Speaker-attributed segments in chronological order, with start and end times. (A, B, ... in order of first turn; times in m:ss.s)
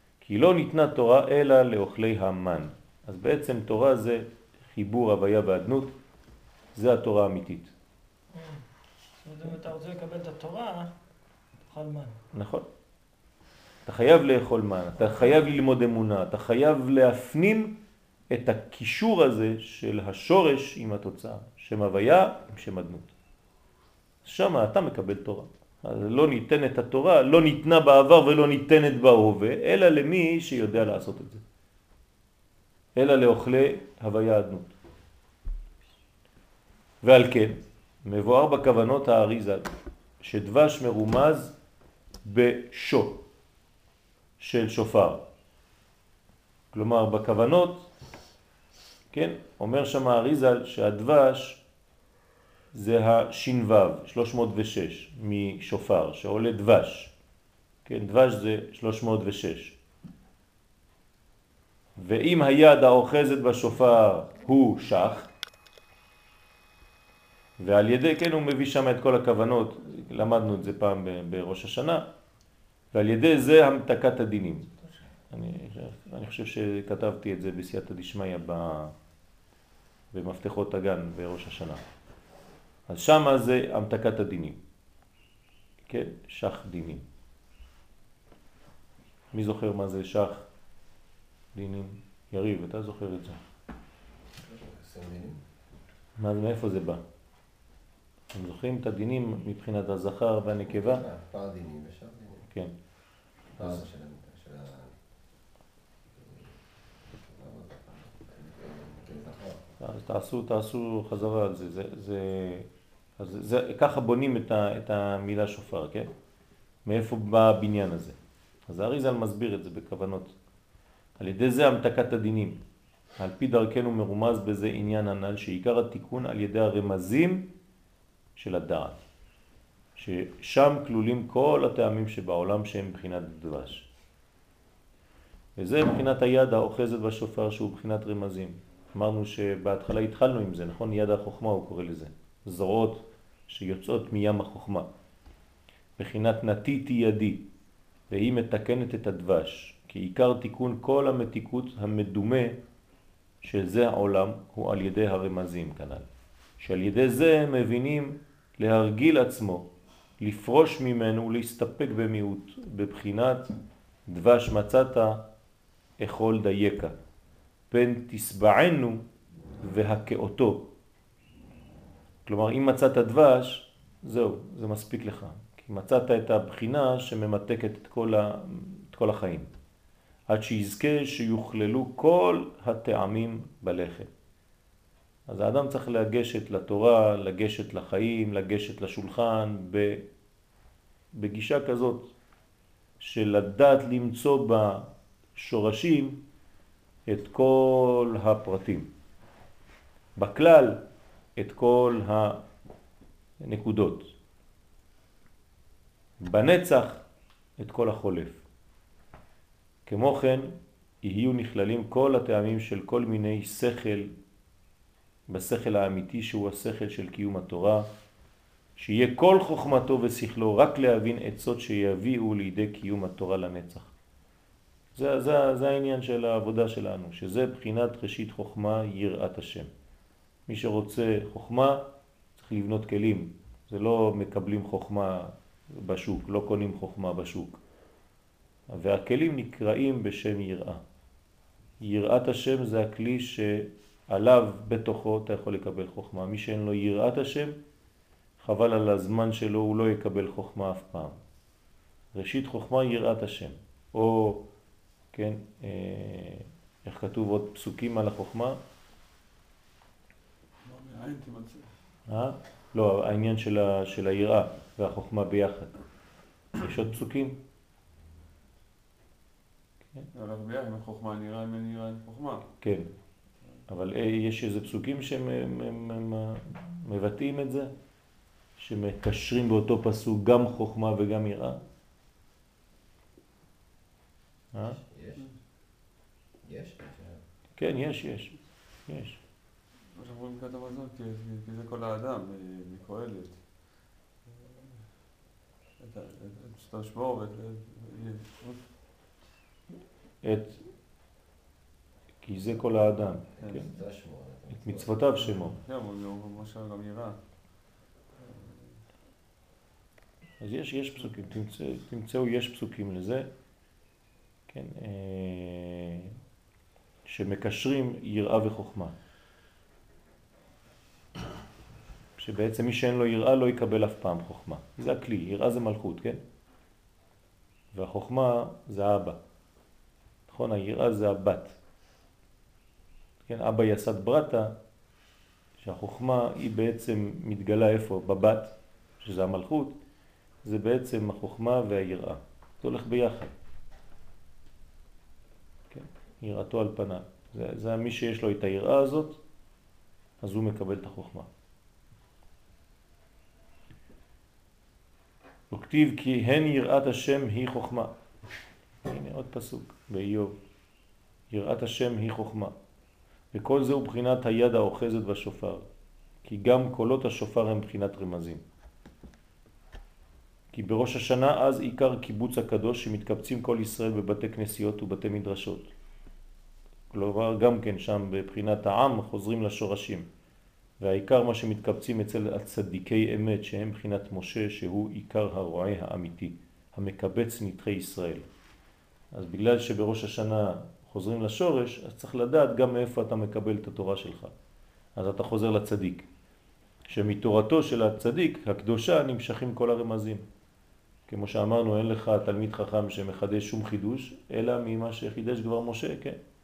0:00.2-0:06.0 A
0:06.8-0:07.7 A
0:08.3-0:08.6 B
0:09.2-0:10.9 B
0:11.6-0:12.2 B
0:12.3-0:12.7 A
0:13.9-0:17.7 A
0:18.3-0:23.1 A
0:24.2-0:31.4 A
0:33.0-0:34.8 A
0:37.0-0:39.7 A
0:40.2-0:41.5 A
0:42.2-0:43.2 A
0:44.4-0:45.2 A
0:46.7-0:47.9 A
0:49.1-0:51.6 A
0:52.7-0:57.1 A
0:57.8-0:59.8 A
1:02.0-1:05.3 A
1:07.6-1:12.0 A
1:12.9-1:14.7 A
1:15.3-1:18.9 A
1:20.1-1:21.8 A
1:22.9-1:24.6 A
1:25.9-1:27.0 A
1:29.3-1:30.5 A
1:31.5-1:33.4 A
1:34.4-1:35.4 C
1:36.2-1:37.0 A
1:38.3-1:41.0 A
1:40.6-1:42.5 C
1:43.6-1:45.0 C
1:46.1-1:49.6 C
1:49.8-1:52.7 A
1:53.2-1:56.1 A
1:56.8-1:58.2 A
1:58.7-2:00.4 A
2:01.2-2:02.6 A
2:03.2-2:07.5 A
2:08.4-2:09.0 A
2:10.0-2:13.9 A
2:15.6-2:24.9 A
2:26.0-2:27.4 A
2:28.1-2:32.6 A
2:33.4-2:36.1 A
2:36.6-2:39.7 A
2:40.2-2:43.5 A
2:44.1-2:45.2 A
2:46.0-2:47.0 A
2:47.7-2:49.0 A
2:49.6-2:50.7 A
2:52.3-2:59.5 A
3:00.3-3:04.1 A
3:05.3-3:10.0 A
3:11.2-3:12.1 A
3:13.0-3:16.2 A
3:17.1-3:18.9 A
3:20.2-3:20.8 A
3:21.4-3:22.4 A
3:23.4-3:24.1 A
3:26.2-3:27.0 A
3:27.6-3:28.4 A
3:29.9-3:34.1 A
3:35.3-3:37.9 A
3:38.8-3:43.9 A
3:45.0-3:49.7 A
3:50.5-3:51.8 A
3:52.4-3:57.6 A
3:58.7-4:00.8 A
4:01.8-4:07.6 A
4:08.4-4:11.2 A
4:12.1-4:14.4 A
4:15.1-4:18.6 A
4:20.6-4:21.8 D
4:22.1-4:25.8 A
4:26.6-4:27.4 A
4:30.1-4:32.5 D
4:32.6-4:32.9 A
4:33.7-4:37.7 A
4:38.6-4:41.6 A
4:44.5-4:44.8 A
4:44.6-4:45.3 C
4:46.4-4:47.2 C
4:47.6-4:49.2 A
4:50.0-4:54.9 D
4:55.8-4:58.7 D
5:00.2-5:00.7 A
5:02.2-5:03.7 A
5:03.2-5:05.1 C
5:04.5-5:05.6 A
5:05.2-5:07.3 D
5:08.1-5:08.8 D
5:10.4-5:13.3 A
5:14.5-5:16.2 A
5:17.0-5:18.9 A
5:22.2-5:26.2 A
5:27.7-5:29.2 A
5:30.3-5:31.6 A
5:33.3-5:34.5 A
5:35.6-5:39.8 A
5:40.4-5:43.3 A
5:45.7-5:49.2 A
5:50.2-5:51.3 A
5:55.5-5:57.9 A
5:58.8-6:00.3 A
6:01.3-6:02.5 A
6:03.3-6:05.7 A
6:06.2-6:08.4 A
6:10.5-6:15.7 A
6:16.9-6:20.1 A
6:20.8-6:28.3 A
6:29.1-6:34.3 A
6:35.0-6:36.1 A
6:36.9-6:40.2 A
6:41.1-6:46.2 A